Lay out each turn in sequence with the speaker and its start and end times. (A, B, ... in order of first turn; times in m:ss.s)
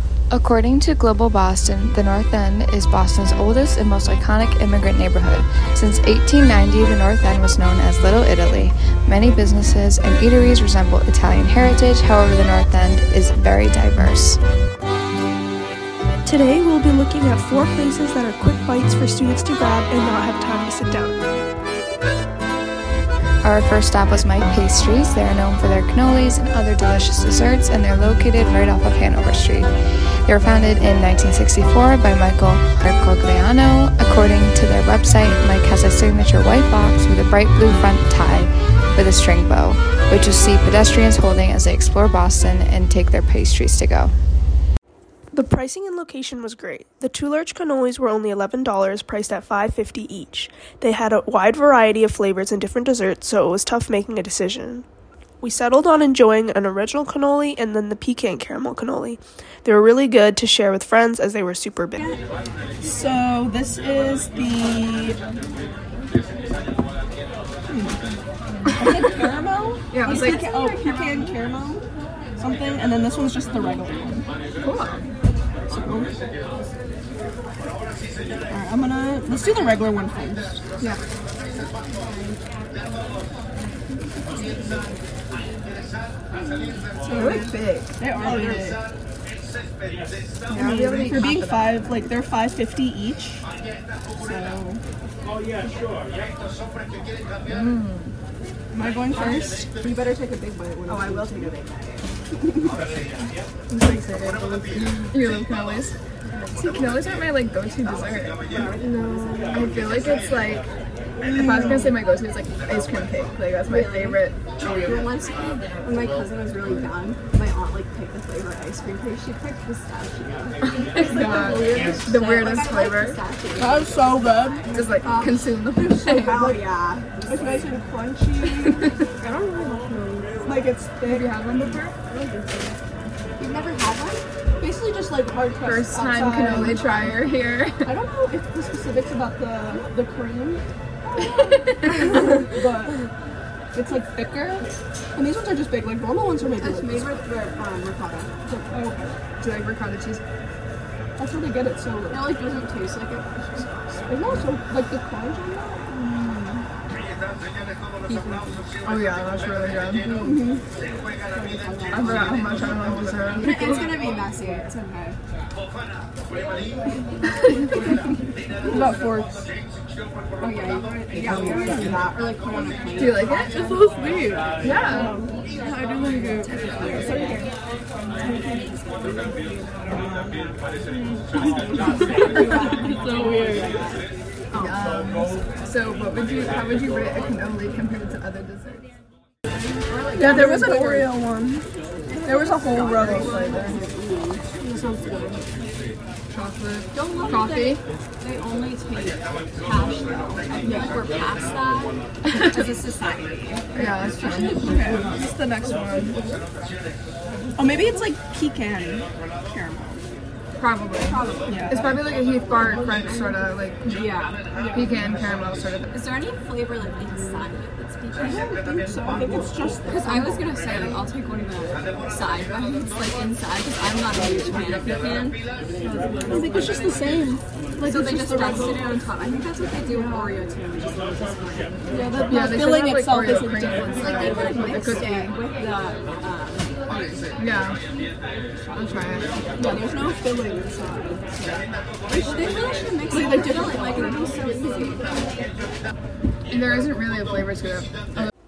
0:00.3-0:14.4 A
0:16.2-0:21.2 B
0:23.4-0:29.7 A
0:30.2-0:44.1 A
0:45.3-0:54.8 B
0:55.4-1:02.0 B
1:02.8-1:05.2 C
1:07.7-1:08.0 C
1:08.7-1:11.8 C
1:09.9-1:10.5 D
1:10.0-1:11.3 E
1:12.4-1:14.3 C
1:14.6-1:15.0 D
1:15.7-1:16.2 C
1:18.5-1:20.6 C
1:21.8-1:22.4 E
1:24.3-1:25.0 E
1:27.1-1:28.8 C
1:27.1-1:28.6 D
1:30.5-1:32.0 D
1:30.5-1:33.4 C
1:34.2-1:34.8 C
1:37.4-1:38.1 D
1:38.7-1:39.7 C
1:39.2-1:39.5 D
1:40.4-1:41.0 C
1:40.9-1:42.1 E
1:43.7-1:45.9 D
1:46.3-1:46.6 E
1:46.5-1:48.4 D
1:48.5-1:50.3 E
1:48.8-1:49.6 C
1:49.5-1:50.6 D
1:51.3-1:54.4 D
1:51.3-1:51.6 C
1:53.6-1:54.2 E
1:54.8-2:07.2 E
2:00.7-2:03.2 D
2:03.6-2:04.8 C
2:04.7-2:06.3 D
2:06.3-2:06.6 C
2:07.2-2:08.8 C
2:09.2-2:10.4 E
2:10.4-2:11.3 C
2:11.0-2:12.0 D
2:12.1-2:12.8 E
2:13.4-2:14.2 E
2:14.6-2:16.9 C
2:15.5-2:17.9 D
2:16.4-2:17.1 E
2:17.8-2:20.6 C
2:22.0-2:23.0 C
2:23.7-2:27.1 C
2:26.6-2:28.6 E
2:28.7-2:29.2 C
2:29.4-2:30.2 D
2:31.2-2:32.4 C
2:32.1-2:34.1 E
2:34.1-2:36.1 C
2:36.2-2:36.5 E
2:38.0-2:38.6 E
2:38.8-2:40.4 D
2:40.2-2:40.6 C
2:41.3-2:45.2 E
2:41.9-2:43.9 D
2:48.7-2:49.4 C
2:50.4-2:53.9 E
2:53.0-2:53.5 D
2:53.5-2:54.4 C
2:54.4-2:57.4 E
2:54.6-2:55.1 D
2:54.9-2:55.3 C
2:56.9-2:57.4 C
2:58.2-3:00.5 E
3:01.3-3:04.9 E
3:02.8-3:03.6 C
3:04.5-3:08.9 D
3:09.7-3:11.1 E
3:10.2-3:11.7 C
3:10.2-3:11.0 D
3:12.1-3:15.6 E
3:12.2-3:13.4 C
3:12.9-3:13.8 D
3:16.3-3:17.8 D
3:16.9-3:25.2 E
3:20.6-3:21.0 C
3:23.7-3:24.7 D
3:24.4-3:26.3 C
3:27.6-3:30.0 C
3:30.6-3:34.0 D
3:31.0-3:32.0 E
3:31.5-3:31.8 C
3:32.7-3:33.3 E
3:33.9-3:34.5 E
3:34.5-3:34.9 C
3:34.7-3:35.9 D
3:35.9-3:38.4 E
3:38.2-3:40.6 C
3:39.0-3:47.2 E
3:46.3-3:49.0 C
3:47.8-3:52.1 E
3:51.9-3:54.7 C
3:52.2-3:55.4 D
3:54.0-3:57.4 E
3:57.4-3:57.8 D
3:58.7-3:59.4 D
3:59.6-4:04.3 C
4:02.2-4:05.4 E
4:06.5-4:07.9 D